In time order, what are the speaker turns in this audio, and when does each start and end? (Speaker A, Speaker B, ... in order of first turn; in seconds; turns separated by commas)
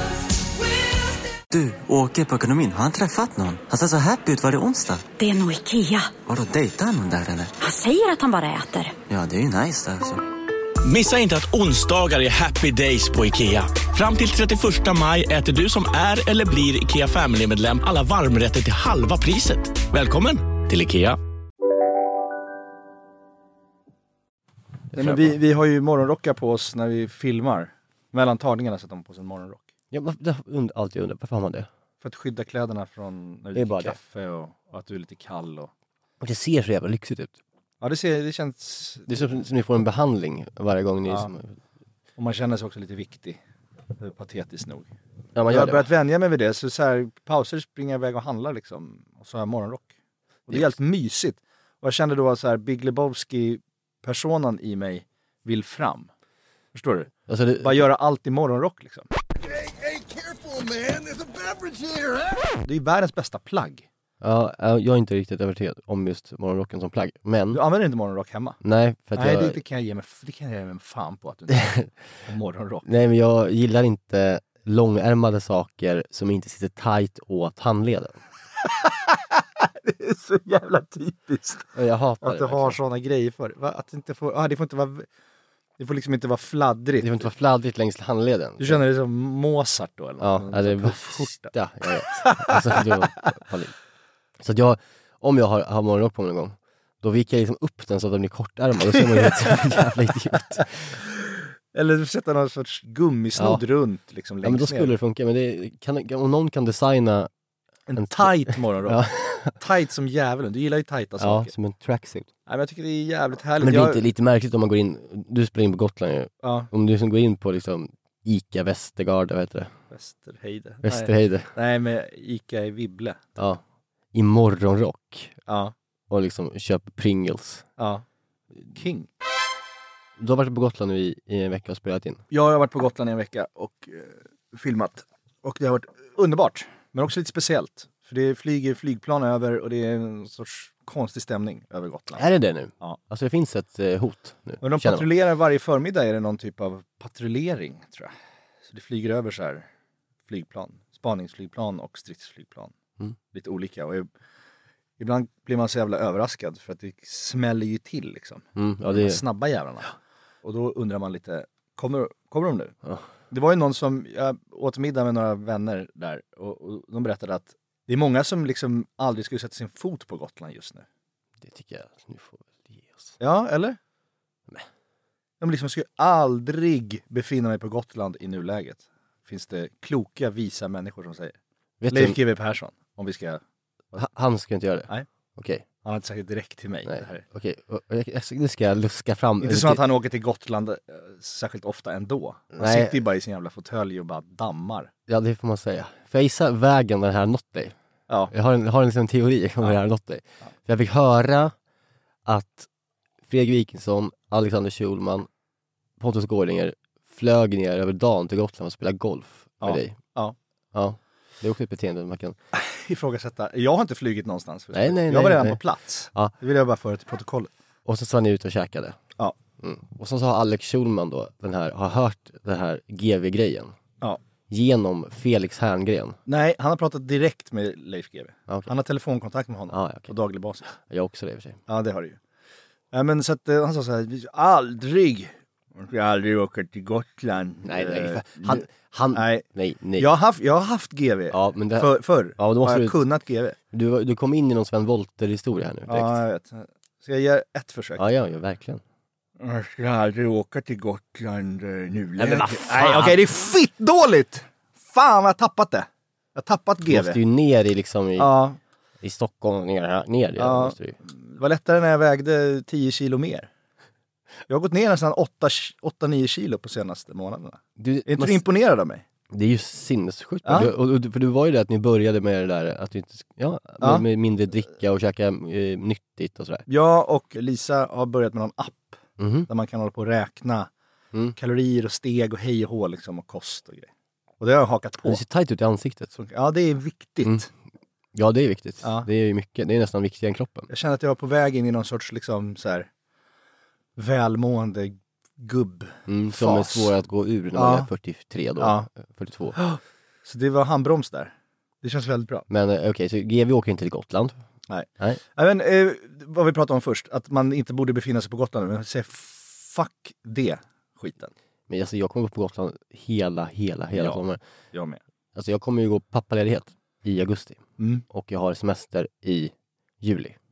Speaker A: 1.5-5.1, Speaker B: 5.2-6.2, Speaker A: 6.2-7.6, Speaker B: 7.6-9.0, Speaker A: 9.1-10.2, Speaker C: 10.8-21.2, Speaker D: 24.9-25.3, Speaker E: 24.9-29.7, Speaker D: 29.9-31.7, Speaker E: 32.0-35.7, Speaker D: 33.5-34.0, Speaker D: 36.2-37.3, Speaker E: 37.8-39.1, Speaker D: 39.1-41.5, Speaker E: 42.2-43.4, Speaker E: 44.0-44.9, Speaker D: 45.4-45.8, Speaker E: 45.5-49.9, Speaker E: 50.5-56.1, Speaker E: 56.7-59.1, Speaker D: 57.3-57.8, Speaker E: 59.6-63.9, Speaker D: 64.2-67.6, Speaker E: 67.5-68.6, Speaker D: 68.6-69.6, Speaker E: 69.1-72.9, Speaker D: 71.5-71.9, Speaker D: 72.8-78.2, Speaker E: 78.8-85.1, Speaker D: 81.8-82.8, Speaker E: 85.8-87.3, Speaker D: 87.0-88.8, Speaker E: 88.6-91.5, Speaker D: 90.2-93.7, Speaker E: 92.1-92.9, Speaker D: 94.4-100.8, Speaker E: 98.9-99.8, Speaker E: 101.7-105.0, Speaker D: 103.4-103.6, Speaker D: 104.4-107.3, Speaker E: 107.9-111.5, Speaker D: 108.0-109.6, Speaker D: 111.2-112.3, Speaker E: 112.5-114.0, Speaker D: 113.6-119.7, Speaker E: 116.4-116.7, Speaker E: 119.9-123.2, Speaker D: 120.8-121.5, Speaker D: 124.1-125.3, Speaker E: 125.5-125.7, Speaker D: 126.1-127.7, Speaker E: 127.8-128.1, Speaker E: 128.7-129.1, Speaker D: 130.2-132.2, Speaker E: 132.3-142.2, Speaker D: 142.2-145.1, Speaker E: 144.6-148.1, Speaker E: 148.7-149.7, Speaker E: 150.3-152.7, Speaker E: 153.3-154.1, Speaker E: 155.0-159.9, Speaker D: 158.6-159.2, Speaker E: 160.4-162.8, Speaker E: 163.3-170.8, Speaker D: 171.4-173.1, Speaker E: 173.2-173.8, Speaker E: 175.4-181.4, Speaker D: 181.8-182.2, Speaker E: 181.9-183.4, Speaker D: 183.9-185.6, Speaker E: 185.8-187.2, Speaker D: 186.8-189.8, Speaker E: 189.4-194.9, Speaker D: 192.5-193.0, Speaker D: 195.1-197.8, Speaker D: 198.3-201.5, Speaker D: 202.2-202.7, Speaker D: 203.3-205.3, Speaker D: 206.0-210.0, Speaker E: 209.6-210.3, Speaker D: 210.7-212.3, Speaker E: 212.5-217.5, Speaker D: 214.7-215.6, Speaker D: 217.8-219.0, Speaker D: 219.6-223.7, Speaker D: 224.5-226.2, Speaker E: 226.3-230.7, Speaker D: 229.7-230.1, Speaker D: 230.8-231.6, Speaker E: 231.7-232.2, Speaker E: 232.9-239.4, Speaker D: 237.7-240.1, Speaker E: 240.0-243.6, Speaker D: 241.3-243.0, Speaker D: 243.7-246.2, Speaker E: 245.9-248.0, Speaker D: 248.0-248.8, Speaker E: 249.4-257.2, Speaker D: 252.2-253.2, Speaker D: 256.9-258.3, Speaker E: 258.2-258.6, Speaker D: 259.0-261.0, Speaker E: 260.4-263.5, Speaker E: 264.5-269.0, Speaker D: 267.8-268.4, Speaker D: 269.3-276.6, Speaker E: 270.4-270.7, Speaker E: 276.7-280.7, Speaker D: 279.2-279.5, Speaker E: 281.4-285.2, Speaker D: 285.0-286.1, Speaker E: 286.2-287.5, Speaker D: 288.1-290.7, Speaker E: 288.8-289.1, Speaker E: 290.7-292.9, Speaker E: 293.9-296.9, Speaker D: 296.1-299.6, Speaker E: 297.6-297.9, Speaker E: 298.6-298.9, Speaker E: 299.6-302.4, Speaker D: 302.5-304.4, Speaker E: 304.7-311.3, Speaker D: 311.7-314.4, Speaker E: 313.9-314.2, Speaker E: 314.7-315.0, Speaker D: 315.4-320.4, Speaker E: 317.8-318.0